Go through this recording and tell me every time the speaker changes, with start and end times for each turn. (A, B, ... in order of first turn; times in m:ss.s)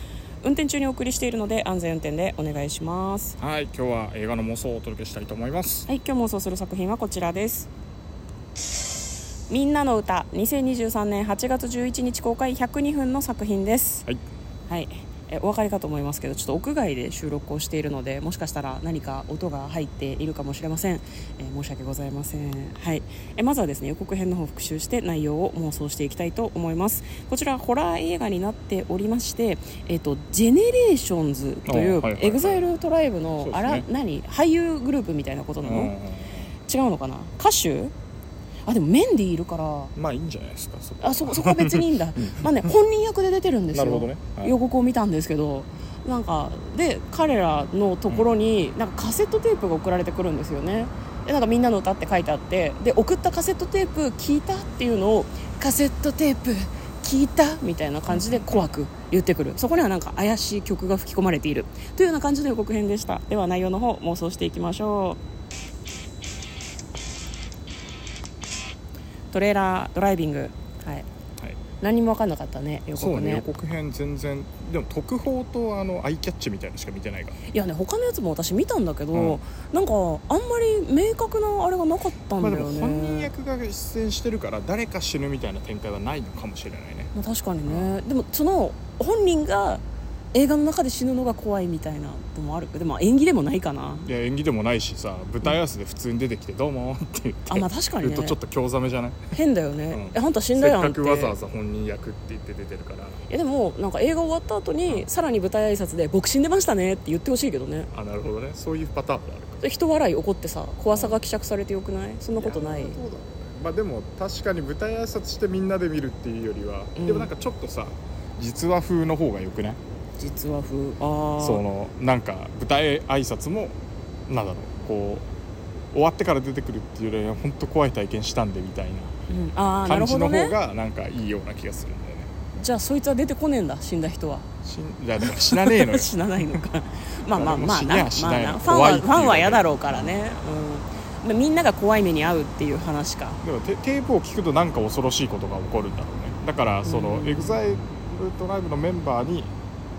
0:00.4-0:03.4 A
0:03.4-0:05.9 B
0:05.9-0:07.7 A
0:09.5-0:14.0 A
0:14.7-0:36.0 A
0:31.6-0:32.7 B
0:33.4-0:33.9 B
0:35.6-0:36.5 B
0:36.6-0:37.9 A
0:38.7-0:39.9 A
0:40.0-0:42.7 B
0:41.0-1:05.2 A
0:43.7-0:44.6 B
0:58.1-0:58.6 B
1:09.3-1:11.0 A
1:11.8-1:13.4 A
1:12.9-1:17.4 B
1:17.5-1:23.3 A
1:19.1-1:19.4 B
1:22.4-1:27.1 B
1:27.1-1:34.1 A
1:27.7-1:28.0 B
1:34.0-1:39.3 B
1:37.5-1:38.4 A
1:39.3-1:41.3 A
1:39.9-1:43.2 B
1:43.3-1:47.9 A
1:47.9-1:49.6 B
1:49.6-1:53.0 A
1:50.9-1:51.2 B
1:52.3-1:59.8 B
1:57.0-1:57.3 A
2:00.2-2:01.6 A
2:01.4-2:05.3 B
2:05.9-2:09.1 B
2:09.3-2:10.6 A
2:09.8-2:12.3 B
2:12.6-2:14.5 A
2:14.6-2:16.6 B
2:15.2-2:23.4 A
2:17.3-2:20.1 B
2:23.4-2:29.5 B
2:26.8-2:27.6 A